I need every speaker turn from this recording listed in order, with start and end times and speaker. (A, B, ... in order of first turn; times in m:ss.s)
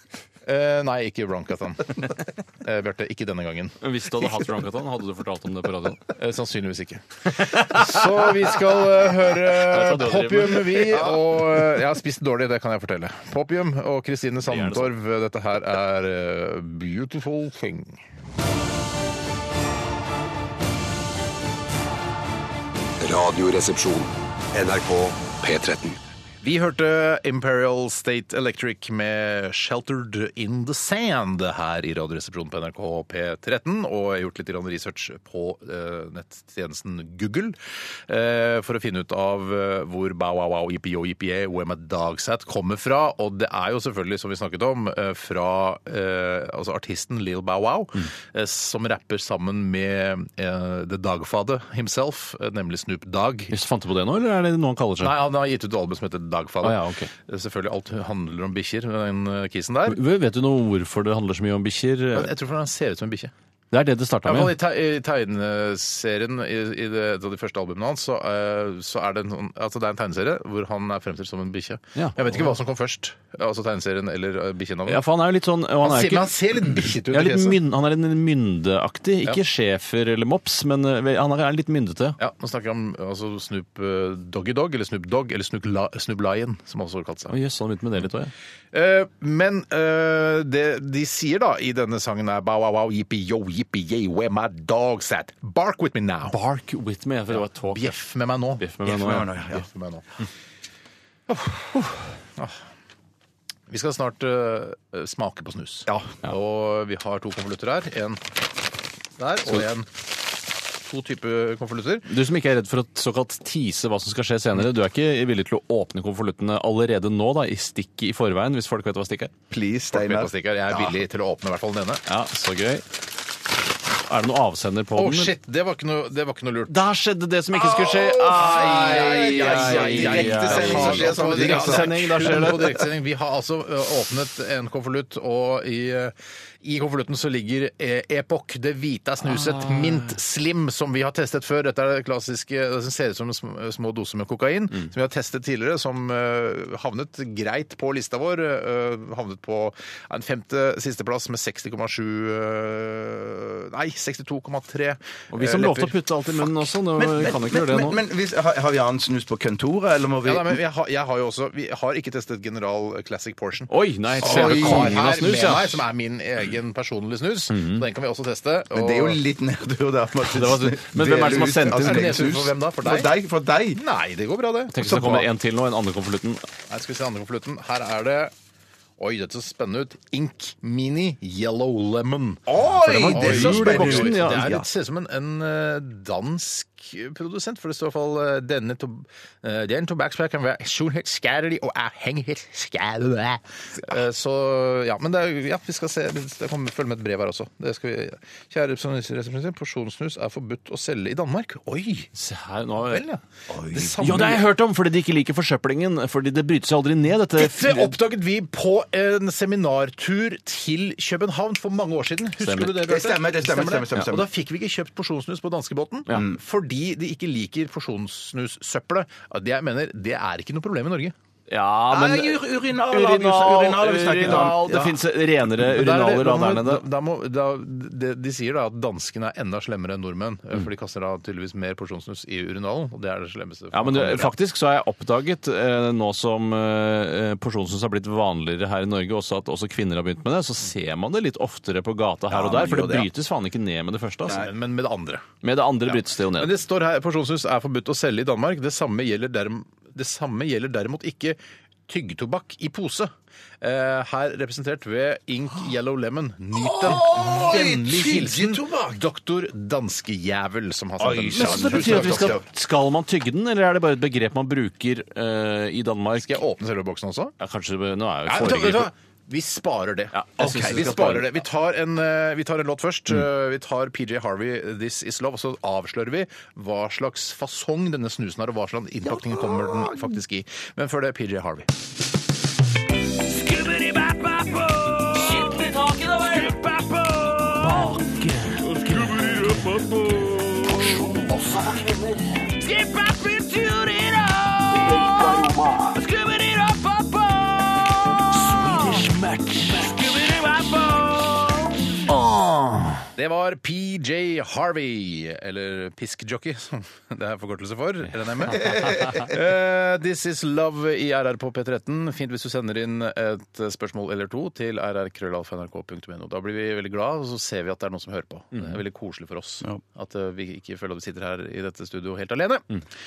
0:00.4-0:03.8 A
0:03.8-0:06.0 B
0:06.1-0:18.0 A
0:07.3-0:08.6 B
0:09.3-0:11.1 B
0:14.4-0:14.9 B
0:23.0-0:26.0 C
0:26.4-0:37.6 A
0:38.1-0:53.5 A
0:53.5-0:55.1 B
0:55.0-1:00.0 A
0:56.6-0:57.1 B
0:59.9-1:02.3 B
1:02.1-1:03.3 A
1:03.7-1:04.5 B
1:04.2-1:15.0 A
1:11.9-1:12.5 B
1:14.9-1:16.3 B
1:15.8-1:17.6 A
1:17.1-1:22.2 B
1:22.2-1:27.3 A
1:27.3-1:28.3 B
1:28.7-1:36.4 A
1:36.3-1:38.0 B
1:37.7-1:40.0 A
1:38.6-1:39.3 B
1:38.8-1:39.6 D
1:41.3-1:41.7 A
1:43.7-1:48.2 A
1:45.9-1:46.1 D
1:49.2-1:50.0 A
1:50.8-1:52.0 A
1:52.0-1:59.3 B
1:59.5-2:01.0 D
1:59.9-2:02.0 A
2:02.1-2:02.8 B
2:04.0-2:05.3 B
2:05.0-2:06.8 A
2:06.7-2:12.8 B
2:07.6-2:12.5 D
2:08.1-2:35.9 A
2:19.2-2:20.1 B
2:35.3-2:38.0 B
2:36.9-2:40.6 D
2:40.2-2:49.2 A
2:43.7-2:45.8 B
2:44.2-2:45.0 D
2:47.5-2:47.8 B
2:48.7-2:53.8 D
2:50.2-2:52.2 B
2:51.3-2:53.1 A
2:53.8-2:55.3 A
2:54.7-2:56.4 B
2:56.7-2:58.3 A
2:59.0-3:22.1 A
3:02.5-3:04.6 D
3:02.8-3:04.5 B
3:22.1-3:23.0 B
3:22.9-3:24.4 A
3:23.5-3:24.1 D
3:24.0-3:27.9 B
3:27.4-3:41.1 A
3:32.4-3:32.8 B
3:32.8-3:34.3 D
3:41.5-3:46.8 B
3:41.9-3:45.0 D
3:44.2-3:44.5 A
3:45.6-3:54.3 A
3:53.7-4:04.4 B
4:02.3-4:03.1 D
4:04.3-4:05.2 A
4:05.4-4:06.5 B
4:06.4-4:22.3 A
4:16.5-4:19.0 D
4:21.0-4:22.4 D
4:21.3-4:26.4 B
4:26.2-4:27.3 A
4:27.4-4:28.9 B
4:28.3-4:41.7 A
4:30.1-4:31.2 B
4:30.4-4:31.3 D
4:39.0-4:40.1 D
4:43.3-5:01.7 B
4:48.8-4:50.1 A
4:54.8-4:55.6 D
4:58.7-4:59.0 A
5:03.1-5:22.6 A
5:08.6-5:09.2 D
5:08.6-5:09.1 B